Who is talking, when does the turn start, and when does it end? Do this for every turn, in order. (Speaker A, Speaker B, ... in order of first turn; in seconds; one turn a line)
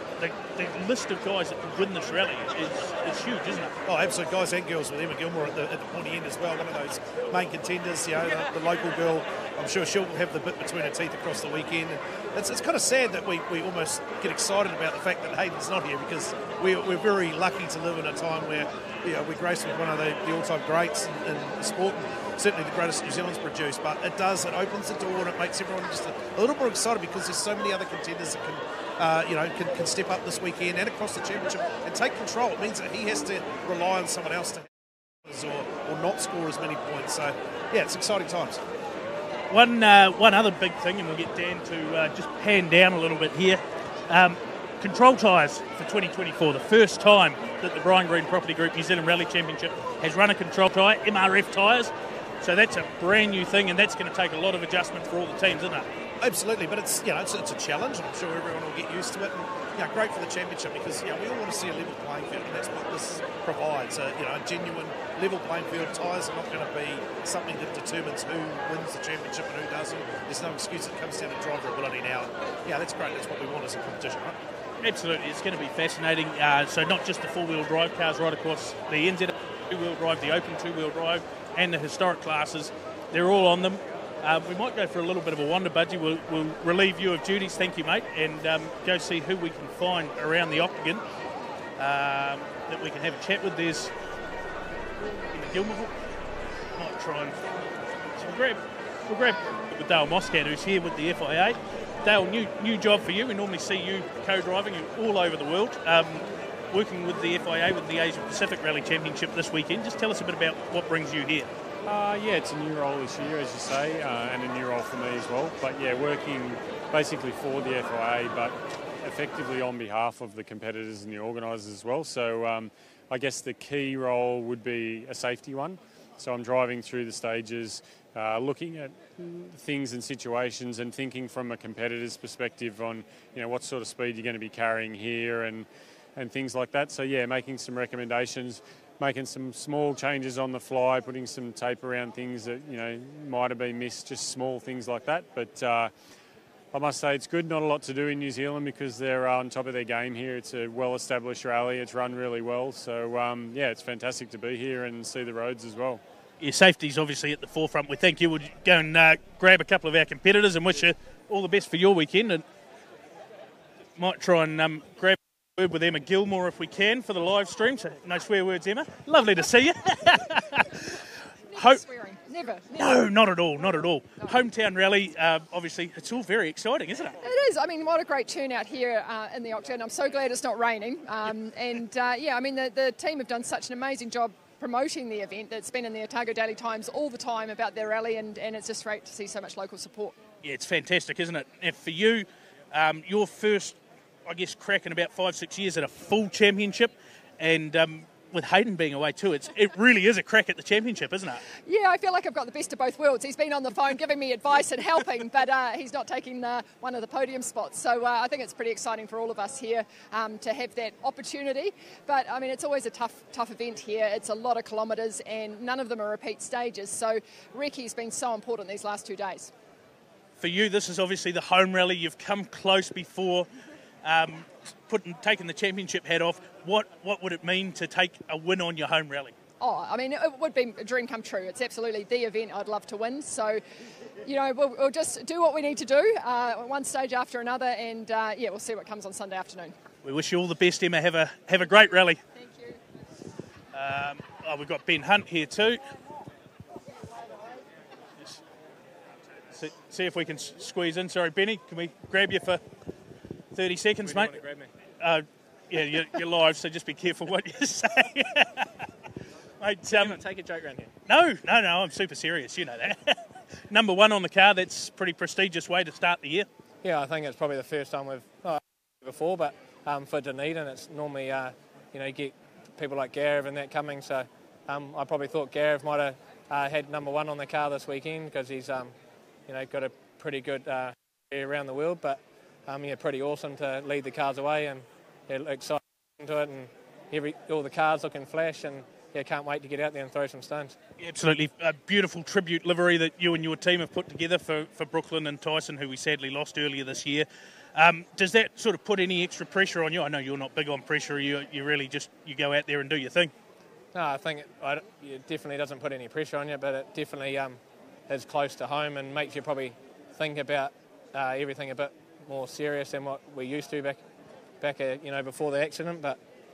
Speaker A: 0.2-3.8
Speaker B: 3.8-34.7
Speaker B: 35.2-38.6
Speaker A: 39.5-55.9
Speaker B: 56.2-74.3
Speaker A: 74.8-91.0
Speaker A: 91.8-93.9
Speaker A: 95.3-95.9
Speaker A: 96.8-97.6
Speaker A: 98.2-111.5
Speaker C: 111.8-145.9
Speaker C: 146.7-156.0
Speaker A: 156.4-162.4
Speaker A: 164.0-171.0
Speaker D: 171.5-172.8
Speaker A: 172.7-177.2
Speaker D: 177.2-190.2
Speaker A: 190.4-201.4
Speaker D: 201.6-219.5
Speaker A: 220.4-223.5
Speaker A: 224.0-229.3
Speaker D: 229.6-233.6
Speaker D: 234.2-239.7
Speaker A: 240.0-242.2
Speaker D: 242.3-242.8
Speaker A: 243.7-245.8
Speaker A: 249.5-252.6
Speaker A: 253.5-254.4
Speaker E: 254.0-254.7
Speaker A: 255.0-258.7
Speaker A: 259.6-260.2
Speaker E: 259.8-260.9
Speaker A: 261.1-266.5
Speaker E: 266.8-278.9
Speaker E: 279.5-290.8
Speaker A: 291.0-303.3
Speaker E: 303.9-314.0
Speaker E: 314.6-316.2